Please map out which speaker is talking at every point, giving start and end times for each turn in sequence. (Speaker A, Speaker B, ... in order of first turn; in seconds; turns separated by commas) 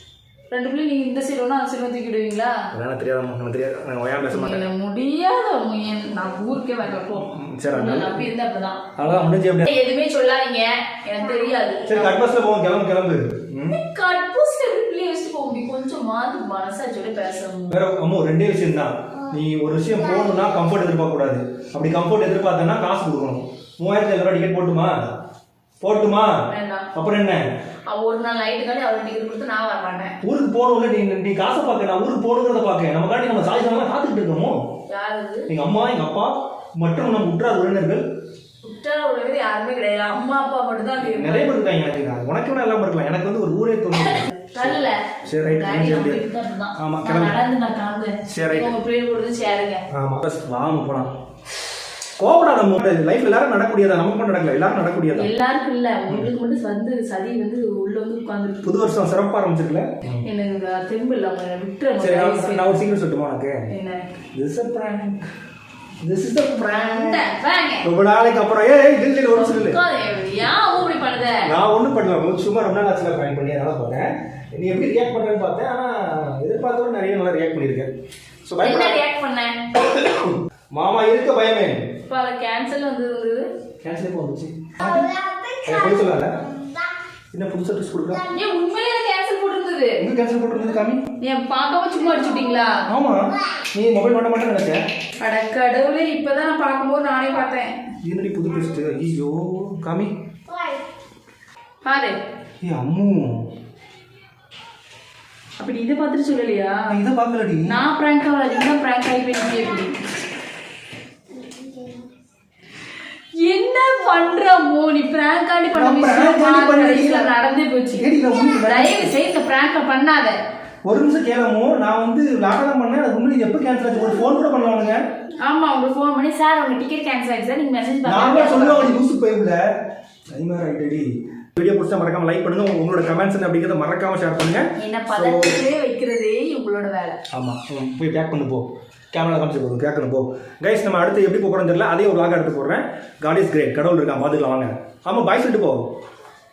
Speaker A: 0.5-2.6, Speaker B: 2.7-4.7, Speaker A: 4.3-8.9, Speaker B: 7.1-8.3, Speaker B: 9.0-9.7, Speaker A: 9.6-12.2, Speaker B: 11.9-13.8, Speaker A: 13.7-17.8, Speaker B: 17.7-25.1, Speaker B: 25.8-27.4, Speaker A: 26.5-26.9, Speaker A: 27.9-30.2, Speaker B: 30.2-34.6, Speaker A: 34.9-35.5, Speaker B: 35.5-38.0, Speaker A: 38.6-41.5, Speaker B: 41.0-46.2, Speaker A: 44.0-49.8, Speaker B: 46.8-47.4, Speaker B: 48.3-48.7, Speaker B: 49.9-51.1, Speaker B: 52.2-55.3, Speaker A: 55.1-58.9, Speaker B: 58.6-60.3, Speaker A: 60.2-62.7, Speaker B: 62.0-63.6, Speaker A: 63.7-64.1, Speaker B: 64.3-65.2, Speaker B: 66.0-67.2, Speaker A: 66.8-67.9, Speaker B: 67.8-69.8, Speaker A: 69.3-71.5, Speaker B: 71.5-77.9, Speaker B: 78.5-79.0, Speaker A: 78.6-79.7, Speaker B: 80.0-81.9, Speaker A: 82.1-83.5, Speaker B: 83.8-86.3, Speaker B: 87.3-88.3, Speaker A: 88.3-90.0, Speaker B: 90.0-91.1, Speaker A: 91.2-92.9, Speaker B: 92.9-94.8, Speaker A: 95.2-97.8, Speaker B: 98.0-100.1, Speaker A: 101.8-102.2, Speaker B: 102.6-103.5, Speaker A: 105.6-106.9, Speaker B: 106.9-107.8, Speaker A: 107.7-110.2, Speaker A: 113.4-118.1, Speaker B: 115.8-117.3, Speaker B: 118.0-119.2, Speaker A: 118.6-120.4, Speaker B: 120.8-125.0, Speaker A: 125.4-128.9, Speaker B: 128.1-129.6, Speaker B: 130.3-135.6, Speaker A: 134.8-137.2, Speaker B: 137.3-145.9